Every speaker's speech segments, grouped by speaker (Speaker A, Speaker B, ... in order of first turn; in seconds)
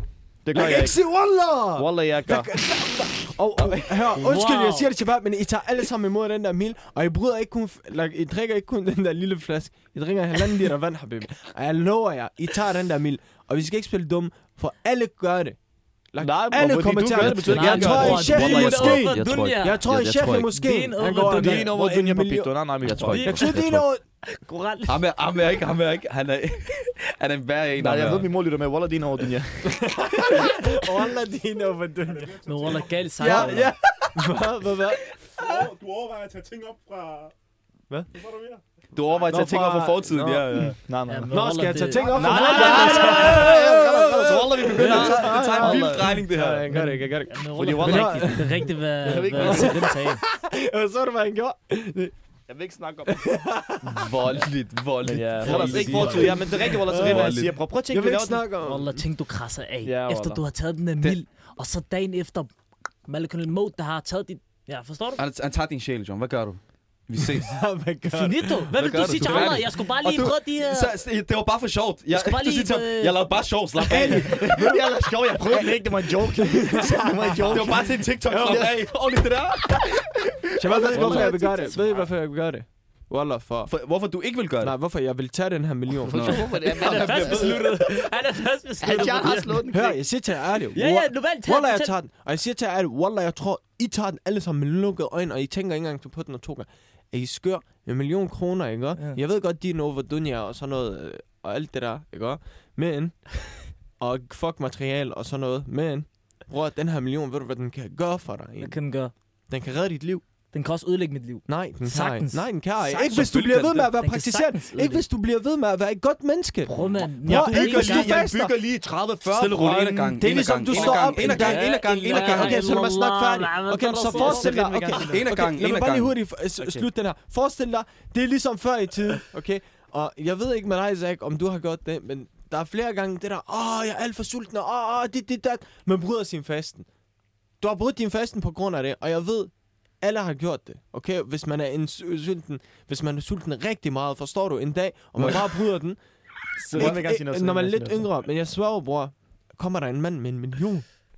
Speaker A: 0.4-1.0, 1.8-2.5, 16.2-18.3, 21.3-23.3, 27.8-30.4, 40.5-46.0, 47.5-48.5, 49.0-49.9, 52.5-53.4, 55.0-58.4, 59.8-60.4, 74.0-78.8, 79.7-80.0, 80.6-81.8, 86.0-87.7, 88.8-90.0, 117.2-121.3, 124.0-125.2, 126.6-126.9, 146.6-148.1
Speaker B: 0.5-15.6, 16.1-22.5, 23.2-24.0, 29.7-32.4, 33.2-35.1, 39.3-40.8, 41.3-48.7, 49.3-52.1, 53.1-54.1, 55.4-59.0, 67.2-69.7, 73.9-77.8, 78.3-78.7, 80.6-83.7, 84.6-86.5, 89.7-108.8, 109.5-110.2, 111.5-118.5, 120.2-136.9, 137.6-146.0, 146.7-151.0
Speaker C: 4.2-4.9, 17.5-19.8, 20.5-21.7, 23.1-23.6, 24.2-25.0, 32.5-33.7, 41.1-43.6, 46.7-50.2, 55.5-56.3, 58.6-62.5, 63.1-65.2, 68.1-70.9, 72.1-73.2, 80.9-82.1, 86.7-89.6, 90.8-92.0, 108.6-109.1, 110.5-115.0, 116.7-118.2, 121.2-124.6
Speaker D: 17.2-20.5, 22.8-23.9, 24.9-28.3, 33.2-34.3, 38.9-40.8, 42.4-43.7, 44.6-46.7, 53.8-57.5, 65.2-67.6, 68.8-74.4, 77.5-79.8, 83.7-84.8, 86.1-87.6, 113.1-113.9, 119.2-122.8, 125.1-126.2, 145.2-145.5
Speaker E: 32.0-33.0, 35.4-37.3, 38.1-39.2